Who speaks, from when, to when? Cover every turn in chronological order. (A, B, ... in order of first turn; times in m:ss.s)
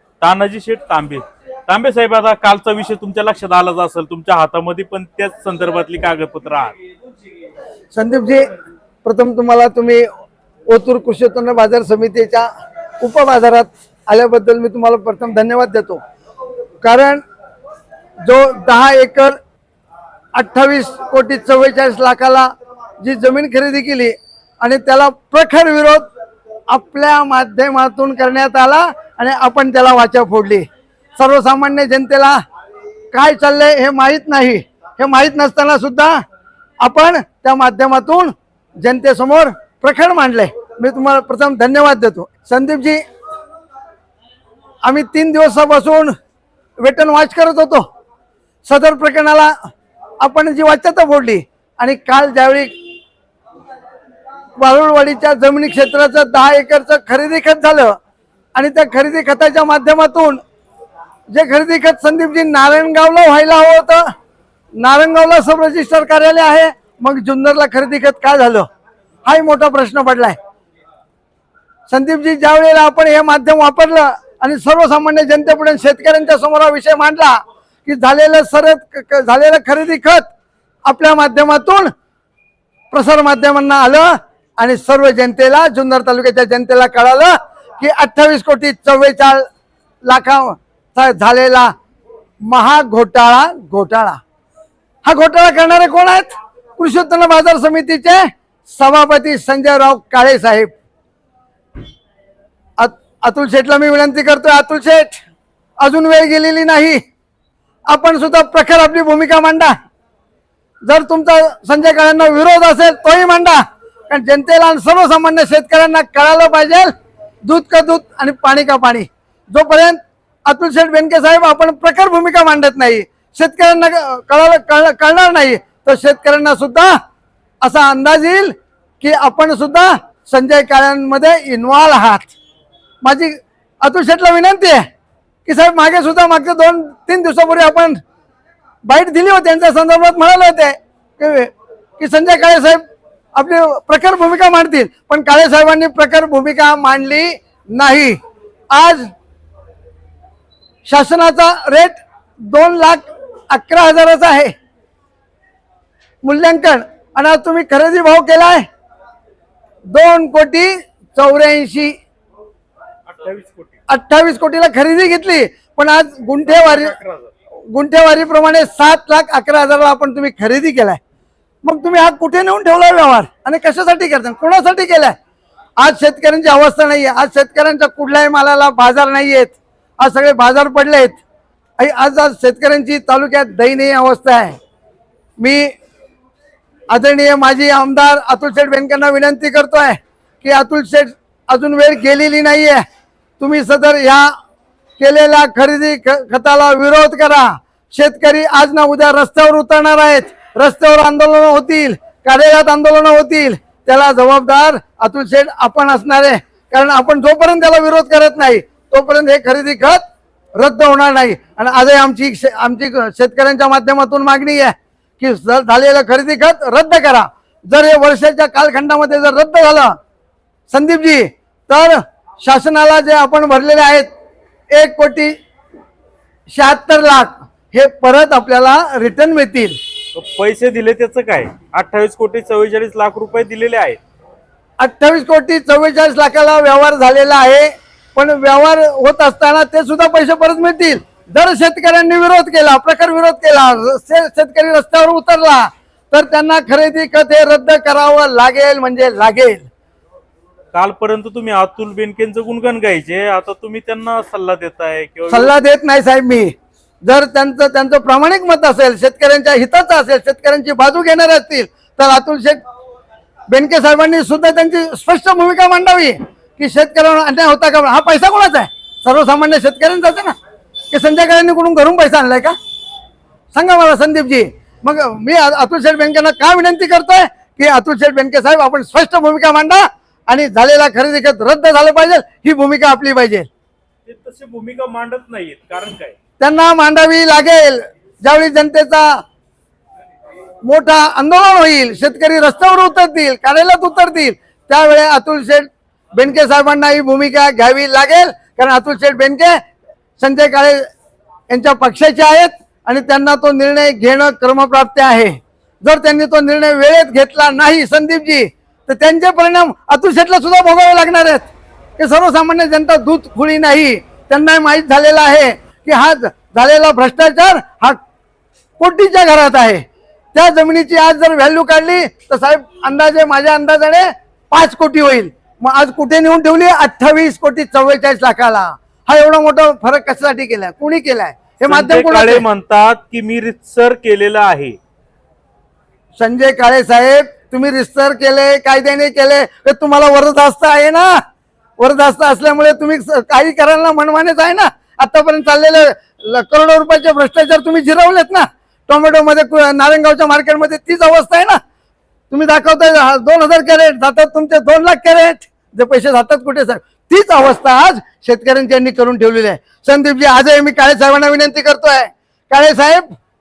0:00.2-0:06.8 A
0:07.9-0:08.5 B
0:09.0-0:10.1 B
0:10.7-0:12.5 B
0:13.0-0:16.0 B
0:16.8-0:17.2 B
0:18.2-0:19.4 B
0:20.3-0:22.5 B
0:23.0-0:26.1 B
0:26.7-0:30.6 B
0:31.2-0:32.4 B
0:33.1-0:36.2 B
0:36.8-0:43.0 B
0:44.8-0:46.1 B
0:46.8-0:47.8 B
0:48.6-0:49.5 B
0:50.2-0:52.7 B
0:54.6-0:58.0 B
0:58.5-1:00.4 B
1:01.3-1:04.0 B
1:04.8-1:08.6 B
1:09.2-1:10.4 B
1:11.9-1:20.2 B
1:20.8-1:21.9 B
1:22.9-1:29.4 B
1:30.0-1:31.7 B
1:32.4-1:34.2 B
1:35.0-1:40.7 B
1:42.8-1:45.2 B
1:45.8-1:47.0 B
1:47.9-1:49.7 B
1:50.8-1:56.9 B
1:57.4-2:06.9 B
2:07.6-2:12.3 B
2:13.0-2:14.8 B
2:15.4-2:18.0 B
2:18.8-2:22.8 B
2:23.3-2:28.2 B
2:28.7-2:29.1 B
2:30.8-2:34.5 B
2:36.2-2:38.6 B
2:39.9-2:41.9 B
2:43.1-2:43.8 A
2:43.9-2:47.0 B
2:46.5-2:47.3 A
2:47.7-2:51.0 B
2:51.6-2:55.1 B
2:55.8-3:01.2 B
3:01.8-3:04.6 B
3:05.4-3:05.7 B
3:06.9-3:12.8 B
3:13.4-3:14.3 B
3:15.0-3:30.0 B
3:30.6-3:40.0 B
3:40.7-3:44.1 B
3:44.7-3:45.3 B
3:46.5-3:49.8 B
3:50.1-3:54.0 A
3:54.8-4:09.6 B
4:10.7-4:15.5 A
4:15.3-4:16.5 B
4:17.0-4:22.6 B
4:23.5-4:30.3 B
4:30.9-4:32.6 B
4:33.5-4:43.5 B
4:44.0-4:46.2 A
4:46.4-4:49.2 B
4:50.6-4:59.6 B
5:00.2-5:00.9 B
5:01.5-5:18.0 B
5:18.8-5:19.8 B
5:20.3-5:32.4 B
5:31.6-5:34.8 A
5:36.2-5:41.1 B
5:41.8-5:51.6 B
5:52.3-6:03.1 B